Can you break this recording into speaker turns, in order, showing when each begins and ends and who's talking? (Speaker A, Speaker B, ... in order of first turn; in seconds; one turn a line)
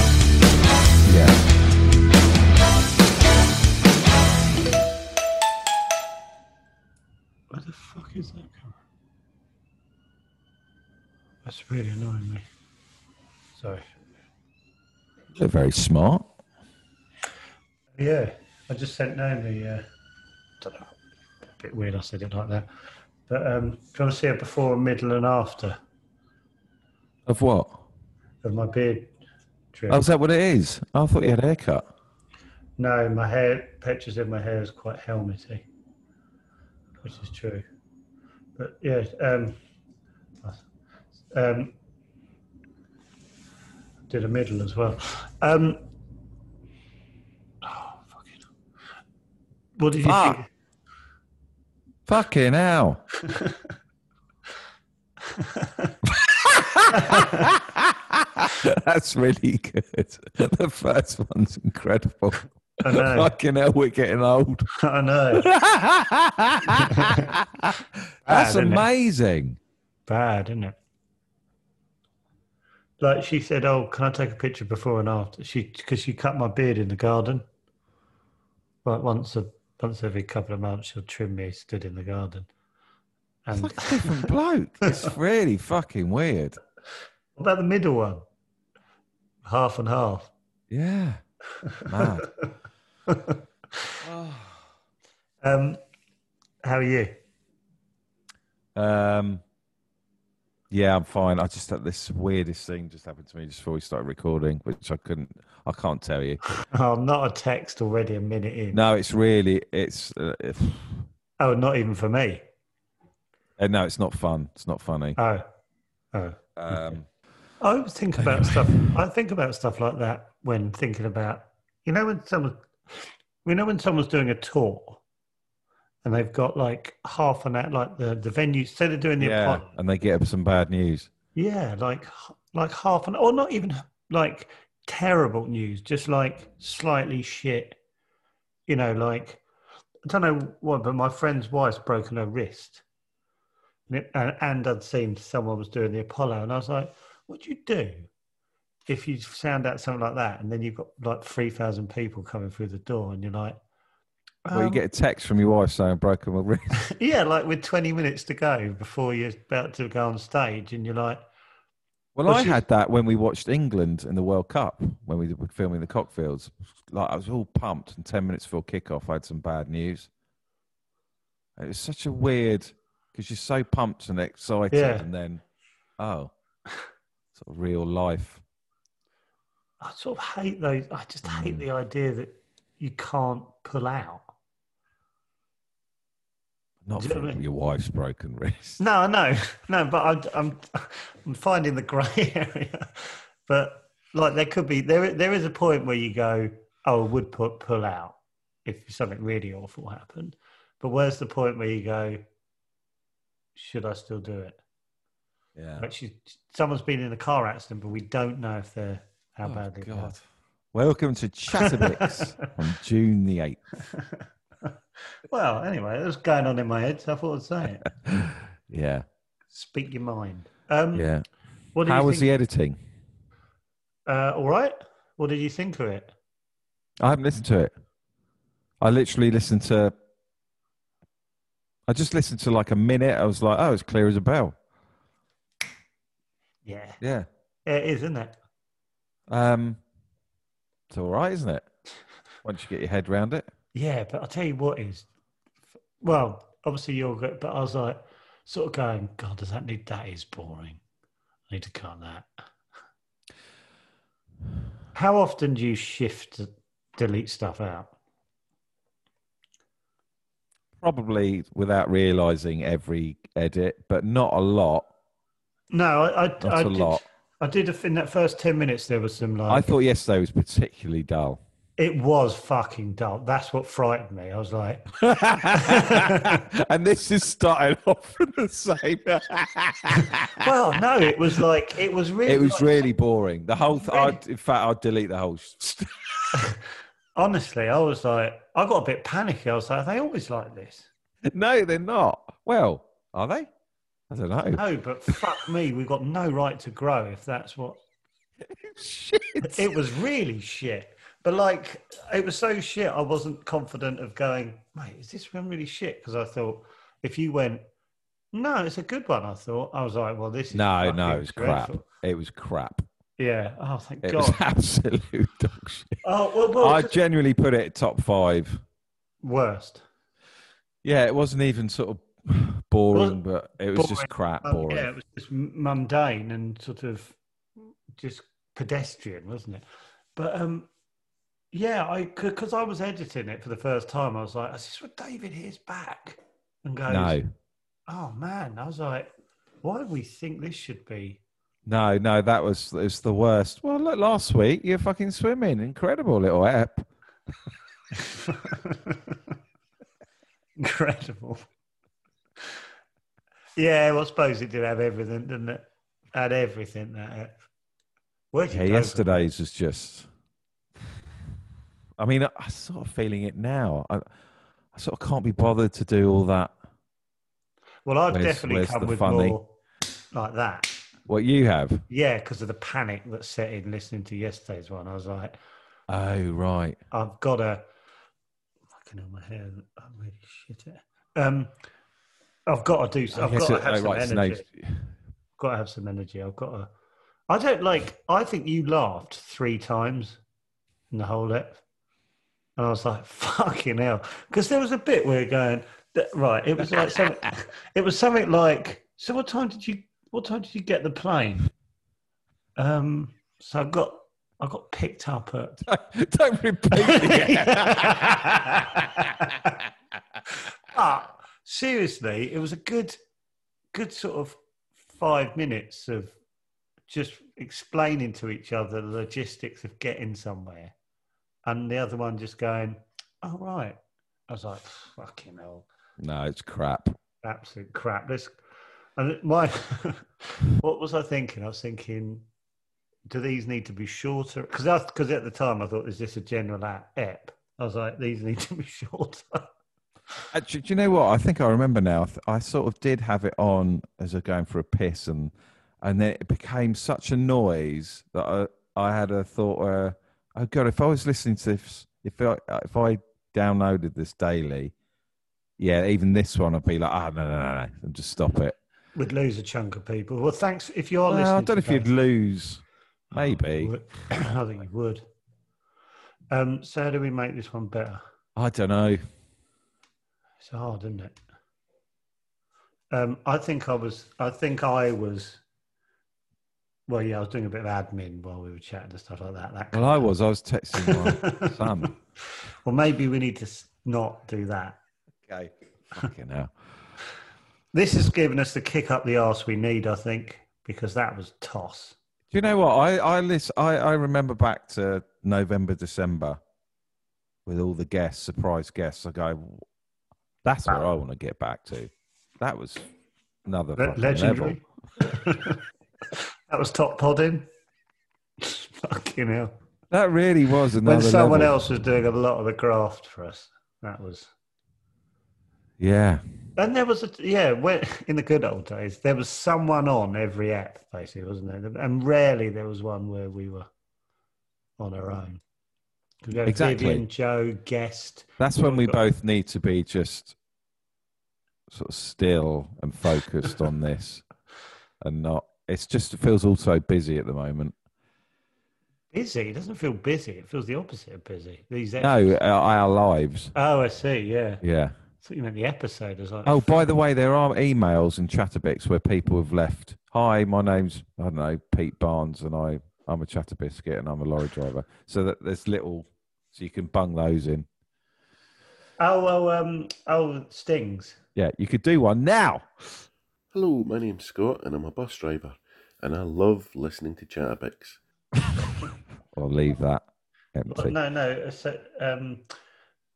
Speaker A: 1.0-1.4
Speaker B: 7.5-8.8
Speaker B: 11.4-12.4
Speaker B: 13.6-13.8
Speaker A: 15.3-16.3
Speaker B: 18.0-19.8
Speaker B: 20.6-20.9
Speaker B: 21.6-22.7
Speaker B: 23.3-25.8
Speaker A: 27.3-27.8
Speaker B: 28.4-29.1
Speaker B: 29.7-30.1
Speaker A: 29.9-31.8
Speaker B: 32.8-35.6
Speaker B: 37.0-37.6
Speaker B: 38.6-39.6
Speaker B: 41.3-41.7
Speaker B: 44.1-45.8
Speaker B: 47.6-48.4
Speaker B: 49.8-50.5
Speaker A: 50.0-50.4
Speaker A: 52.1-53.0
Speaker B: 53.3-53.5
Speaker B: 55.3-55.9
Speaker A: 56.0-64.7
Speaker B: 56.9-57.5
Speaker B: 62.8-63.3
Speaker B: 64.7-65.5
Speaker A: 65.3-69.6
Speaker B: 66.7-67.3
Speaker B: 68.3-68.9
Speaker B: 70.1-70.8
Speaker B: 73.0-77.4
Speaker B: 78.8-82.5
Speaker B: 83.4-84.3
Speaker A: 83.5-86.6
Speaker B: 84.8-85.1
Speaker B: 87.3-88.2
Speaker B: 89.4-90.3
Speaker A: 90.7-91.2
Speaker B: 91.7-92.1
Speaker A: 91.8-92.3
Speaker B: 93.1-93.9
Speaker A: 94.0-94.6
Speaker B: 95.4-95.8
Speaker B: 96.6-97.2
Speaker A: 98.7-99.4
Speaker A: 100.7-106.5
Speaker B: 106.7-108.8
Speaker A: 108.7-111.0
Speaker B: 111.4-112.4
Speaker A: 113.6-115.2
Speaker B: 115.2-115.5
Speaker B: 116.1-117.0
Speaker A: 116.6-117.0
Speaker B: 117.6-125.0
Speaker A: 118.2-118.9
Speaker B: 126.0-129.7
Speaker A: 129.2-131.1
Speaker B: 131.3-137.8
Speaker B: 138.7-139.4
Speaker B: 140.1-142.8
Speaker B: 143.9-148.1
Speaker B: 148.9-153.6
Speaker B: 154.4-154.8
Speaker A: 154.5-156.8
Speaker B: 156.8-161.2
Speaker A: 162.1-170.1
Speaker B: 162.2-162.6
Speaker A: 171.6-175.4
Speaker B: 174.7-175.1
Speaker A: 176.0-176.3
Speaker A: 177.3-178.4
Speaker B: 179.8-184.2
Speaker A: 181.2-181.6
Speaker A: 186.8-188.8
Speaker B: 186.9-187.4
Speaker B: 188.8-202.2
Speaker B: 203.6-204.6
Speaker A: 205.5-205.8
Speaker B: 205.8-210.2
Speaker A: 209.4-210.2
Speaker A: 210.7-213.6
Speaker B: 211.6-212.2
Speaker B: 213.9-214.7
Speaker B: 215.3-217.9
Speaker A: 218.0-219.0
Speaker B: 219.5-221.1
Speaker A: 220.9-221.2
Speaker B: 221.7-222.3
Speaker A: 221.8-222.8
Speaker B: 224.1-226.1
Speaker A: 227.0-227.7
Speaker A: 228.8-229.9
Speaker A: 231.9-234.6
Speaker B: 236.6-237.0
Speaker A: 237.0-237.3
Speaker B: 237.7-238.3
Speaker A: 239.3-239.8
Speaker A: 240.9-241.7
Speaker A: 242.4-243.5
Speaker B: 243.7-245.1
Speaker B: 246.0-250.8
Speaker B: 251.5-252.3
Speaker B: 254.9-257.9
Speaker A: 260.8-264.9
Speaker B: 265.7-269.7
Speaker A: 266.4-267.0
Speaker A: 269.5-271.4
Speaker B: 271.8-276.4
Speaker A: 275.0-280.5
Speaker B: 280.0-282.9
Speaker A: 282.2-286.4
Speaker B: 283.8-284.2
Speaker B: 286.3-286.6
Speaker B: 287.1-290.9
Speaker A: 291.2-293.5
Speaker A: 294.1-295.1
Speaker B: 294.6-297.8
Speaker A: 298.5-299.7
Speaker B: 299.4-307.6
Speaker B: 308.3-311.8
Speaker A: 310.5-312.9
Speaker B: 313.2-314.4
Speaker A: 314.0-316.0
Speaker B: 316.0-316.9
Speaker A: 316.6-318.6
Speaker B: 319.2-319.8
Speaker A: 320.8-324.9
Speaker B: 322.9-323.2
Speaker B: 323.7-327.2
Speaker B: 327.9-329.6
Speaker B: 330.1-330.7
Speaker B: 331.5-337.2
Speaker A: 336.9-337.3
Speaker B: 337.9-339.1
Speaker B: 339.6-341.2
Speaker A: 341.6-346.9
Speaker B: 347.9-349.3
Speaker B: 350.6-351.4
Speaker B: 353.6-357.3
Speaker B: 358.3-359.3
Speaker A: 358.5-360.1
Speaker A: 362.0-364.1
Speaker A: 364.7-366.5
Speaker B: 367.8-369.5
Speaker A: 368.1-369.4
Speaker B: 370.1-370.8
Speaker A: 371.1-371.8
Speaker B: 371.9-375.4
Speaker A: 375.9-376.8
Speaker B: 376.9-377.6
Speaker B: 378.7-381.5
Speaker B: 382.5-384.4
Speaker A: 383.1-384.9
Speaker B: 385.4-386.7
Speaker B: 387.3-390.2
Speaker B: 390.9-391.6
Speaker B: 392.6-401.5
Speaker B: 402.6-405.6
Speaker A: 405.6-409.5
Speaker B: 406.7-409.6
Speaker B: 410.6-413.0
Speaker B: 413.7-414.4
Speaker B: 414.9-416.1
Speaker B: 416.9-420.7
Speaker B: 421.4-425.6
Speaker A: 426.0-427.0
Speaker B: 427.2-428.4
Speaker B: 429.0-432.2
Speaker B: 433.1-439.5
Speaker A: 440.3-454.7
Speaker A: 455.6-458.6
Speaker B: 458.9-461.9
Speaker A: 461.1-462.6
Speaker B: 463.1-465.0
Speaker A: 463.1-463.7
Speaker B: 466.3-468.0
Speaker A: 468.4-469.0
Speaker B: 470.4-471.2
Speaker B: 472.9-475.4
Speaker B: 476.9-480.1
Speaker A: 479.7-481.9
Speaker B: 480.7-481.9
Speaker B: 482.6-484.8
Speaker A: 485.2-486.5
Speaker B: 487.7-491.9
Speaker A: 492.3-496.4
Speaker A: 497.4-499.6
Speaker A: 500.4-502.8
Speaker A: 503.4-504.6
Speaker B: 503.8-507.5
Speaker B: 508.4-509.5
Speaker A: 509.9-511.5
Speaker B: 510.8-514.3
Speaker A: 515.8-516.2
Speaker B: 516.6-523.7
Speaker B: 524.8-525.4
Speaker B: 526.2-529.0
Speaker A: 526.4-527.0
Speaker A: 528.4-530.3
Speaker A: 531.7-534.2
Speaker A: 535.0-537.7
Speaker B: 539.1-542.4
Speaker A: 542.0-543.5
Speaker B: 543.5-544.6
Speaker A: 544.6-544.9
Speaker B: 545.2-546.9
Speaker A: 546.5-557.7
Speaker B: 559.0-561.2
Speaker A: 561.4-563.0
Speaker C: 563.5-568.0
Speaker A: 568.4-570.0
Speaker A: 570.5-570.9
Speaker B: 570.7-572.4